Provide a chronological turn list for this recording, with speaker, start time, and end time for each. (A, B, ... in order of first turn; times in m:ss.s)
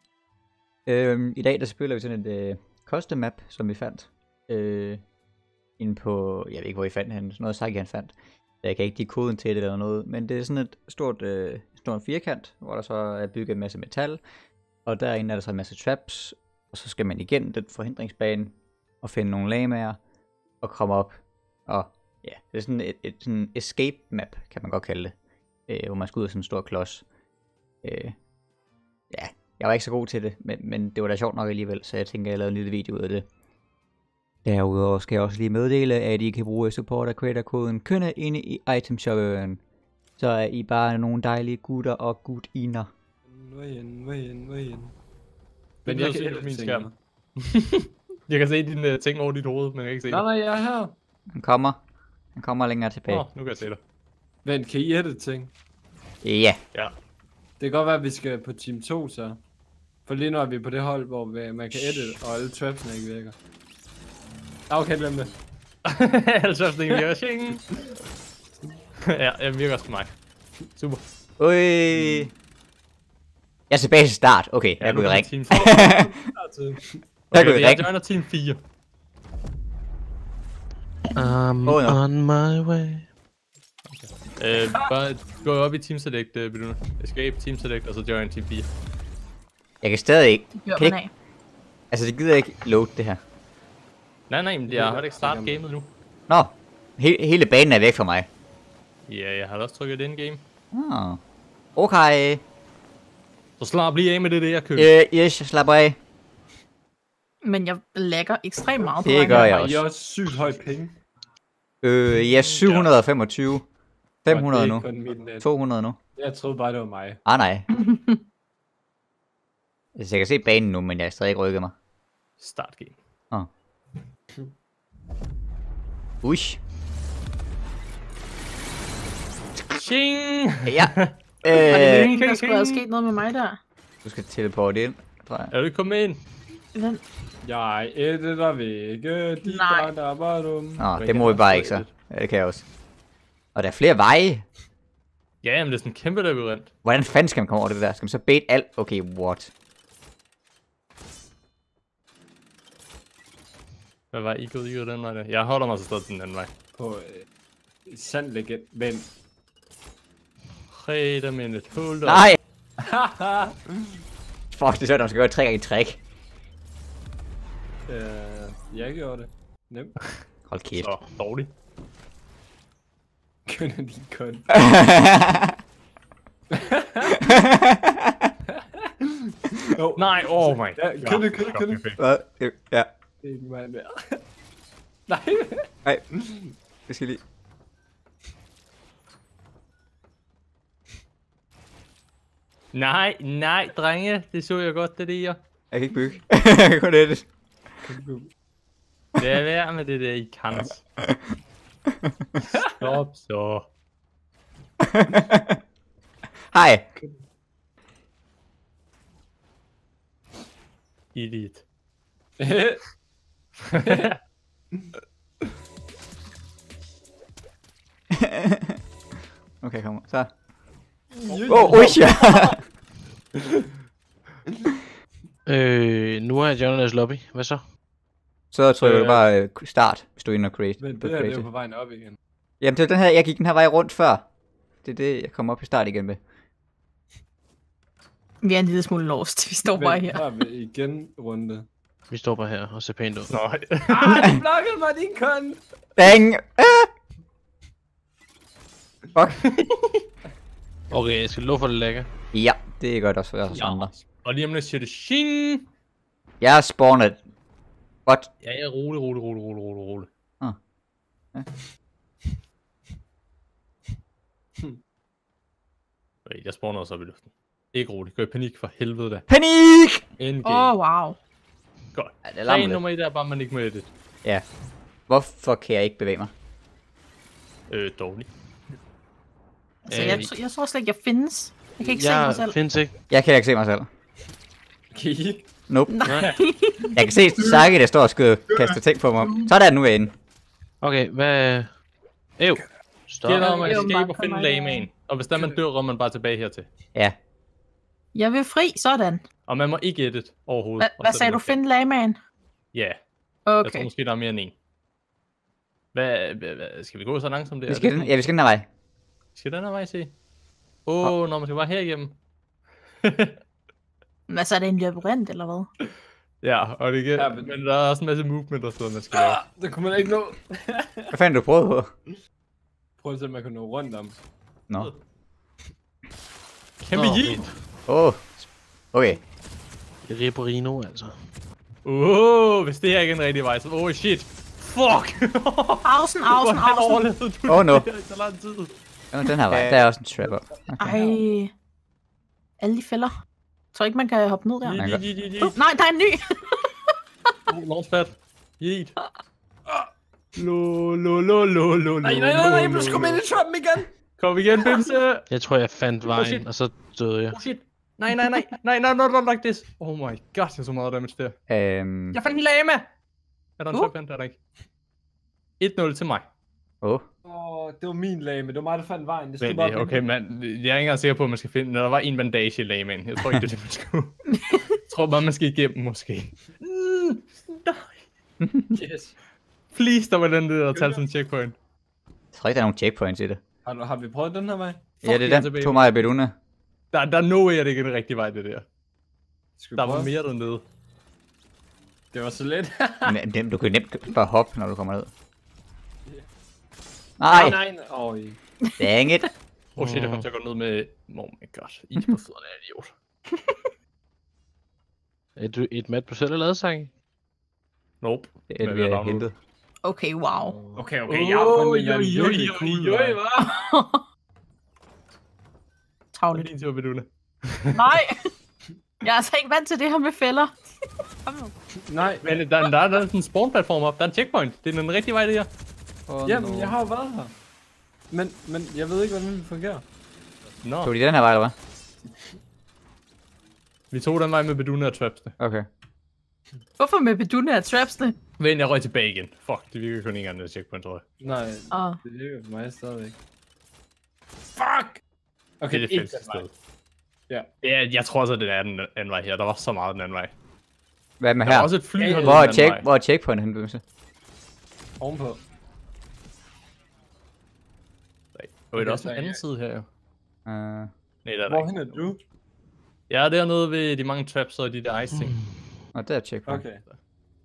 0:00.9-0:05.0 A
0:05.8-0:14.2 A
0:14.8-0:20.0 A
0:20.6-0:25.1 A
0:25.7-0:27.0 A
0:27.8-0:28.2 A
0:29.1-0:33.2 A
0:34.4-0:39.6 A
0:40.2-0:42.9 A
0:43.3-0:44.9 B
0:45.8-0:46.9 C
0:45.8-0:46.9 B
0:47.4-0:50.2 C
0:50.1-0:50.9 B
0:51.3-0:51.8 A
0:52.4-0:53.2 A
0:53.1-0:53.8 C
0:54.4-0:55.5 B
0:56.2-0:56.6 A
0:57.6-0:59.4 B
1:00.0-1:03.3 B
1:04.7-1:05.4 B
1:05.8-1:07.7 C
1:09.0-1:10.1 C
1:10.7-1:11.0 C
1:11.4-1:12.3 A
1:11.9-1:12.3 B
1:13.7-1:16.1 A
1:14.8-1:15.7 C
1:15.5-1:17.0 B
1:17.3-1:18.6 C
1:17.3-1:17.9 A
1:21.2-1:23.1 D
1:21.6-1:22.0 A
1:23.9-1:28.7 C
1:29.8-1:31.0 A
1:30.5-1:31.1 E
1:31.9-1:33.2 A
1:34.3-1:35.9 C
1:34.7-1:35.6 B
1:36.3-1:38.3 A
1:39.1-1:40.4 C
1:40.7-1:41.2 A
1:41.8-1:42.4 A
1:43.6-1:44.9 C
1:44.8-1:46.0 A
1:47.4-1:49.6 E
1:49.0-1:49.8 A
1:49.2-1:51.0 B
1:51.8-1:53.7 A
1:52.5-1:52.9 C
1:54.2-1:54.8 A
1:54.3-1:55.5 B
1:55.4-1:56.0 A
1:56.2-1:57.2 B
1:57.2-1:57.7 A
1:57.7-1:58.2 E
2:00.0-2:01.7 A
2:02.4-2:03.0 C
2:06.2-2:06.6 A
2:09.7-2:12.8 C
2:10.6-2:12.1 A
2:11.6-2:13.6 E
2:14.0-2:15.5 A
2:15.5-2:16.2 C
2:16.7-2:17.0 E
2:17.4-2:20.8 B
2:19.4-2:19.9 E
2:20.8-2:22.6 A
2:21.0-2:21.9 C
2:23.5-2:24.4 A
2:25.4-2:26.7 C
2:26.8-2:29.5 A
2:34.1-2:36.5 C
2:36.7-2:37.2 B
2:37.8-2:39.1 B
2:40.7-2:42.4 C
2:42.0-2:42.4 A
2:42.8-2:43.8 B
2:44.5-2:46.0 A
2:47.9-2:50.0 B
2:50.5-2:50.9 A
2:50.8-2:51.5 C
2:53.4-2:54.6 B
2:54.5-2:55.6 A
2:56.5-2:57.2 B
2:57.2-2:58.3 A
2:58.6-3:01.9 B
3:00.0-3:02.0 C
3:02.0-3:02.9 A
3:03.2-3:04.2 B
3:05.1-3:06.5 B
3:06.9-3:07.2 A
3:12.7-3:15.4 C
3:15.7-3:17.3 A
3:17.8-3:18.3 B
3:19.2-3:20.8 C
3:21.9-3:22.2 A
3:22.6-3:23.7 C
3:24.8-3:25.6 A
3:26.5-3:26.8 A
3:31.1-3:31.6 C
3:32.4-3:32.8 B
3:33.7-3:34.1 C
3:33.8-3:34.1 B
3:38.1-3:38.8 A
3:39.6-3:40.3 A
3:41.2-3:42.5 B
3:41.5-3:42.6 A
3:45.4-3:47.6 D
3:48.5-3:51.4 A
3:48.7-3:49.2 B
3:50.8-3:52.2 B
3:52.6-3:54.2 A
3:54.8-3:56.2 A
3:58.4-4:00.2 E
3:59.7-4:01.7 B
4:02.1-4:03.4 D
4:03.3-4:04.3 C
4:03.9-4:05.6 B
4:06.0-4:06.9 A
4:09.6-4:09.9 C
4:10.9-4:12.1 D
4:12.3-4:13.9 A
4:13.5-4:15.6 C
4:16.4-4:17.2 A
4:18.0-4:18.3 A
4:18.4-4:20.1 C
4:26.2-4:29.2 C
4:29.3-4:30.0 A
4:30.2-4:30.7 C
4:30.4-4:31.2 E
4:31.9-4:33.9 C
4:32.2-4:32.8 A
4:35.1-4:36.3 A
4:37.7-4:38.3 C
4:39.8-4:42.6 E
4:39.9-4:40.3 C
4:39.9-4:40.3 D
4:41.8-4:42.9 D
4:43.1-4:43.9 A
4:44.9-4:45.4 B
4:45.7-4:46.0 A
4:45.9-4:47.0 E
4:46.0-4:46.3 D
4:46.9-4:50.1 A
4:50.8-4:51.7 D
4:52.4-4:53.8 D
4:53.2-4:56.7 C
4:53.4-4:54.9 E
4:58.1-4:59.2 E
4:59.5-5:01.6 C
5:00.8-5:02.2 E
5:02.7-5:03.0 C
5:03.4-5:03.9 E
5:03.6-5:04.5 C
5:05.9-5:08.2 C
5:07.7-5:08.7 A
5:09.3-5:10.1 C
5:10.8-5:12.2 C
5:13.0-5:13.3 C
5:14.3-5:15.7 E
5:16.4-5:19.4 C
5:17.1-5:17.5 B
5:19.1-5:21.1 B
5:21.1-5:21.9 A
5:23.0-5:24.2 B
5:26.8-5:27.5 C
5:26.9-5:27.5 D
5:27.9-5:28.4 A
5:28.9-5:29.2 A
5:30.0-5:31.2 D
5:31.8-5:38.7 C
5:35.8-5:37.1 E
5:37.5-5:37.9 A
5:39.1-5:40.9 A
5:39.5-5:39.8 C
5:40.8-5:41.5 E
5:42.6-5:43.1 E
5:43.7-5:46.9 E
5:44.6-5:45.6 C
5:44.8-5:45.0 A
5:47.5-5:48.9 C
5:50.4-5:53.2 C
5:52.0-5:53.9 B
5:54.2-5:55.2 C
5:55.3-5:57.4 D
5:56.0-5:56.5 C
5:57.3-6:01.4 C
6:01.5-6:02.2 A
6:02.1-6:02.9 C
6:03.6-6:04.4 C
6:05.6-6:06.3 C
6:07.2-6:10.0 B
6:09.4-6:18.0 C
6:18.4-6:18.8 A
6:18.7-6:19.1 B
6:19.7-6:21.5 C
6:20.7-6:21.0 B
6:22.3-6:23.4 A
6:23.6-6:24.9 B
6:25.0-6:26.3 A
6:25.0-6:26.0 C
6:26.9-6:28.6 C
6:29.6-6:30.1 B
6:29.8-6:30.6 C
6:32.1-6:33.2 B
6:33.0-6:35.1 A
6:37.2-6:37.6 A
6:37.3-6:38.4 B
6:38.8-6:39.3 A
6:39.8-6:42.9 C
6:39.8-6:40.2 D
6:45.4-6:46.9 D
6:48.0-6:49.3 C
6:48.5-6:49.3 A
6:49.8-6:50.6 E
6:50.7-6:53.2 B
6:51.1-6:53.2 C
6:53.4-6:54.0 E
6:56.1-6:56.5 E
6:56.3-6:57.8 C
6:57.7-6:58.2 E
6:59.0-7:00.6 E
7:01.2-7:01.5 E
7:01.8-7:02.3 B
7:02.2-7:05.5 C
7:06.1-7:06.8 A
7:06.2-7:07.3 B
7:08.1-7:09.8 B
7:10.6-7:10.9 C
7:10.8-7:11.5 A
7:13.9-7:15.3 C
7:15.4-7:15.7 A
7:16.8-7:18.2 E
7:18.4-7:21.0 C
7:21.2-7:23.2 B
7:21.7-7:22.0 E
7:24.6-7:25.0 B
7:25.6-7:26.4 B
7:25.7-7:26.5 C
7:27.6-7:30.3 C
7:31.2-7:33.8 A
7:31.4-7:32.8 C
7:32.0-7:32.4 B
7:35.0-7:35.4 B
7:38.3-7:39.8 C
7:38.8-7:39.4 B
7:40.4-7:40.9 A
7:41.2-7:42.0 C
7:41.5-7:42.2 B
7:43.1-7:45.4 C
7:45.9-7:46.6 A
7:46.4-7:46.8 B